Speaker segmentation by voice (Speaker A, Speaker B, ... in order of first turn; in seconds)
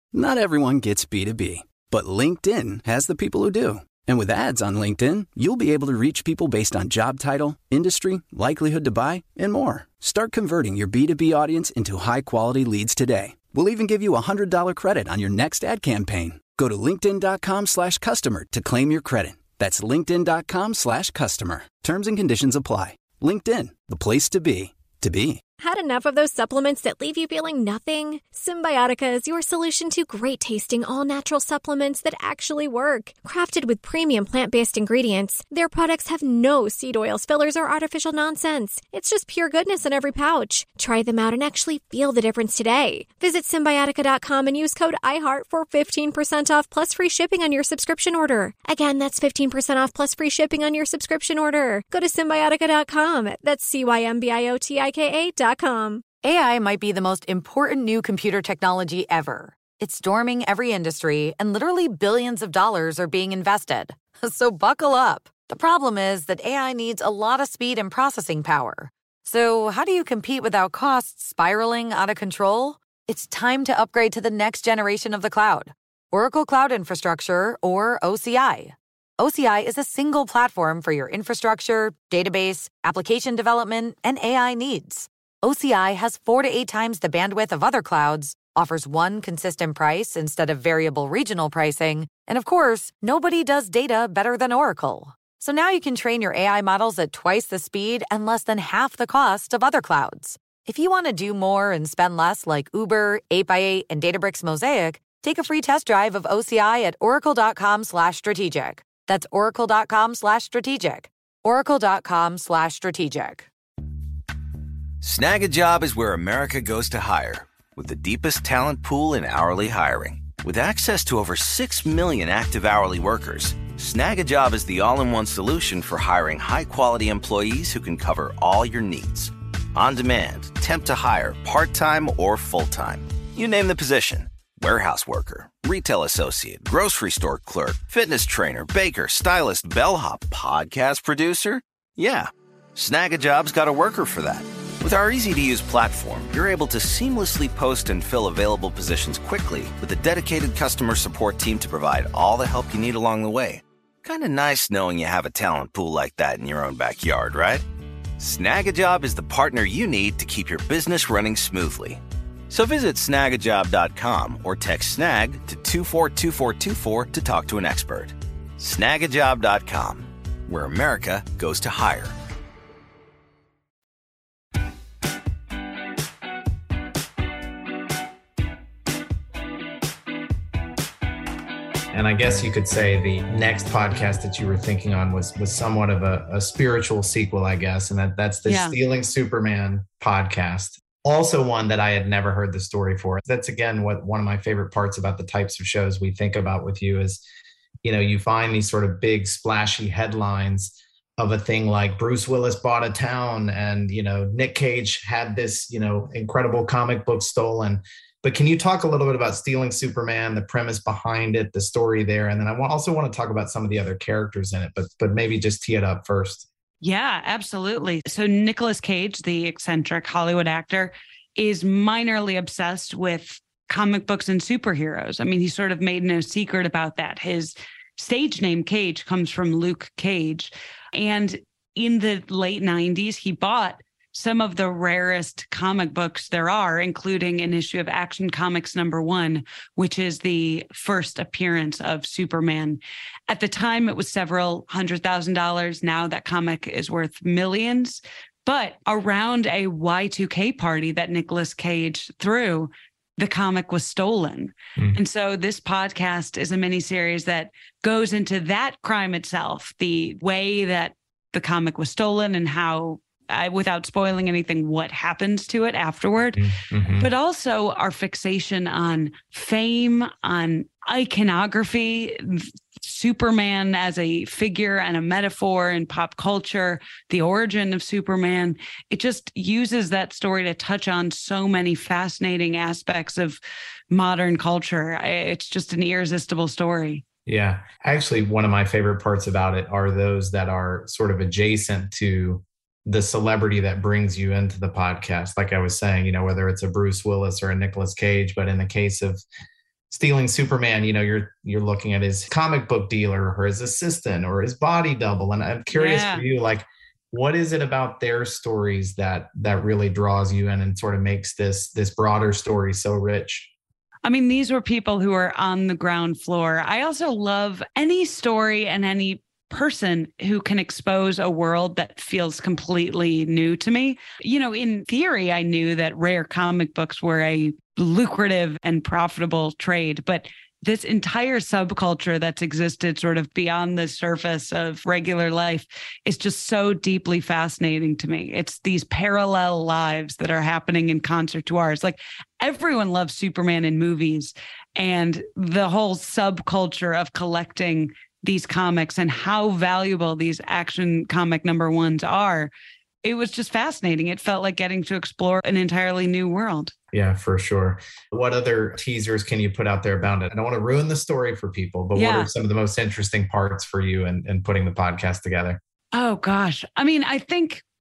Speaker A: 0.1-25.4
Speaker B: 25.6-56.1
Speaker C: 56.2-113.5
Speaker D: 115.0-157.6, 158.2-172.1
Speaker E: 181.9-197.2, 197.8-216.5, 266.4-267.1, 287.2-299.2, 299.9-313.5, 356.9-365.6
Speaker F: 188.4-188.8, 216.8-266.4, 266.9-283.4, 283.9-287.0, 305.7-306.2, 314.0-352.5, 353.0-356.7, 361.9-362.3, 365.9-367.6